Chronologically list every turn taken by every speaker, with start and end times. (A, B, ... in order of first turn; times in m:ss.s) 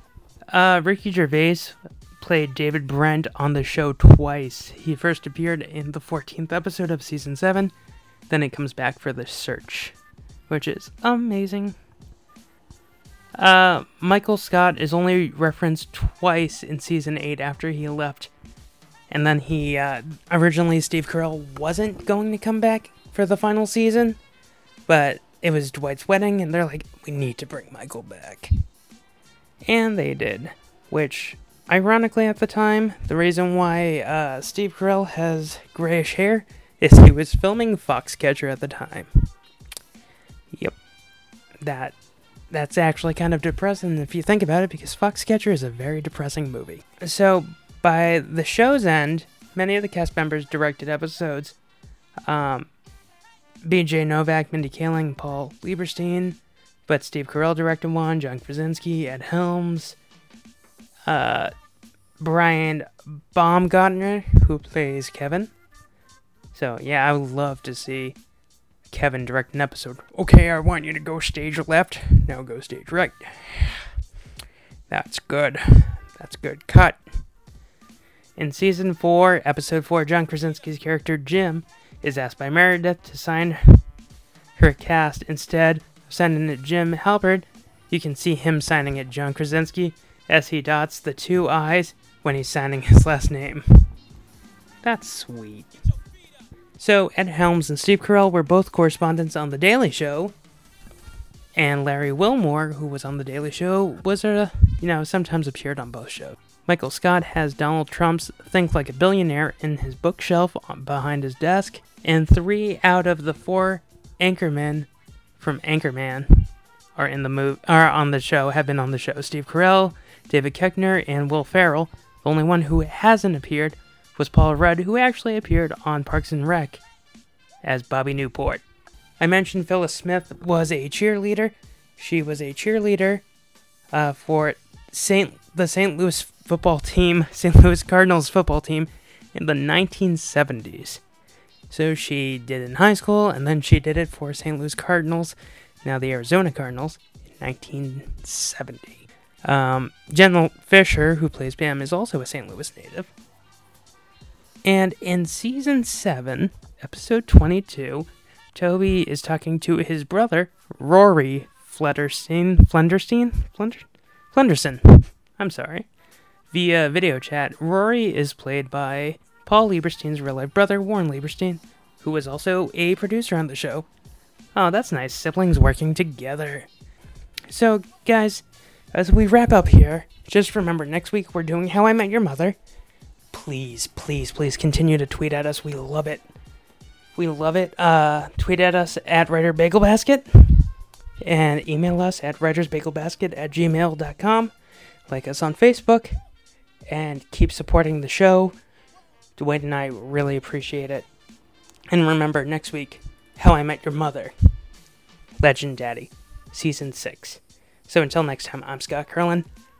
0:00.5-0:07.7 A
0:08.3-0:10.0 A
0:10.5-0:11.8 A
0:13.4-0:18.3 A
0:19.1-0:24.2 A
0:24.9-0:28.5 A
0:29.6-0:39.3 A
0:40.5-0:40.8 A
0:41.6-0:41.9 A
0:42.5-0:51.6 A
0:52.3-0:52.7 A
0:53.6-1:00.0 A
1:01.1-1:01.5 A
1:02.2-1:05.5 A
1:06.5-1:08.2 A
1:08.9-1:13.9 A
1:14.9-1:17.0 A
1:18.4-1:23.8 A
1:24.6-1:33.8 A
1:34.8-1:35.7 A
1:36.8-1:40.3 A
1:41.5-2:06.8 A
2:07.6-2:08.6 A
2:09.2-2:13.2 A
2:13.9-2:21.0 A
2:21.7-2:33.1 A
2:34.6-2:45.9 A
2:46.5-2:53.9 A
2:54.5-2:56.7 A
2:57.5-3:02.6 A
3:03.3-3:06.2 A
3:07.1-3:10.7 A
3:11.2-3:14.5 A
3:15.1-3:16.2 A
3:16.9-3:18.6 A
3:19.4-3:21.1 A
3:21.9-3:24.3 A
3:25.4-3:29.5 A